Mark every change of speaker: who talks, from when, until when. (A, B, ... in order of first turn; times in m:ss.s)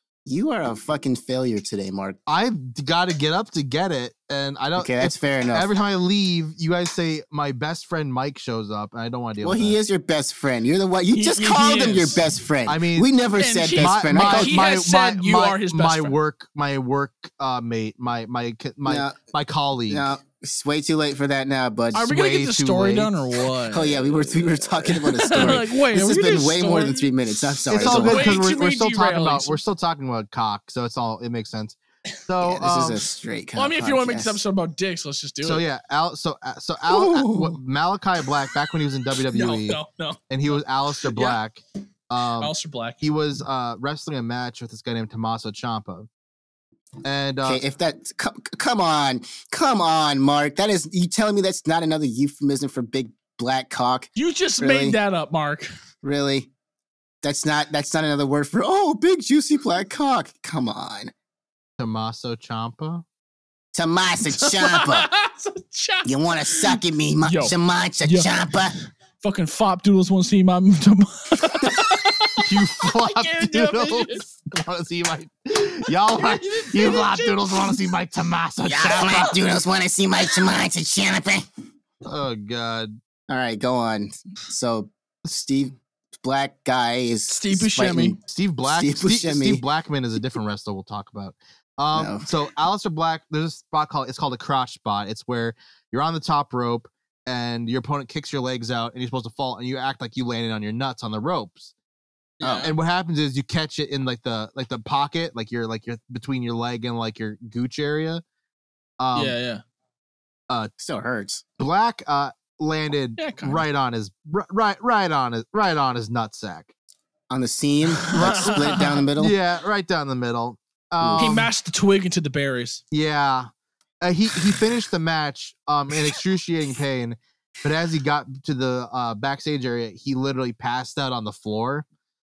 0:00.3-0:02.2 A
0:02.3-0:09.8 B
0:04.8-0:05.7 A
0:09.4-0:14.6 A
0:11.1-0:12.2 C
0:12.7-0:13.1 B
0:13.4-0:16.2 C
0:13.8-0:20.1 B
0:18.8-0:19.2 A
0:19.9-0:22.1 A
0:21.9-0:23.1 B
0:21.9-0:27.1 C
0:23.7-0:28.4 A
0:27.7-0:33.1 B
0:27.7-0:29.6 C
0:32.4-0:34.4 A
0:33.6-0:35.6 C
0:35.4-0:46.1 B
0:36.9-0:37.6 A
0:39.3-0:41.4 C
0:42.4-0:43.0 C
0:47.0-0:47.6 B
0:47.4-0:55.0 A
0:54.2-0:55.7 C
0:56.0-0:56.5 A
0:57.2-1:01.1 A
1:01.8-1:03.0 B
1:03.7-1:05.1 A
1:04.3-1:08.3 C
1:06.0-1:08.8 A
1:09.2-1:14.3 C
1:12.4-1:19.4 B
1:16.1-1:17.8 C
1:18.6-1:21.4 A
1:22.0-1:23.0 B
1:23.3-1:29.6 A
1:27.3-1:28.2 C
1:28.3-1:41.7 B
1:31.9-1:32.3 A
1:42.4-1:42.7 C
1:42.5-1:48.2 B
1:49.0-1:49.4 B
1:49.2-1:49.6 C
1:50.8-1:51.4 A
1:51.6-1:56.7 B
1:53.2-1:53.6 C
1:57.3-1:59.4 A
1:58.0-1:59.0 C
1:58.2-2:01.5 B
2:01.0-2:01.4 A
2:01.2-2:02.8 C
2:02.9-2:03.5 B
2:04.0-2:11.9 B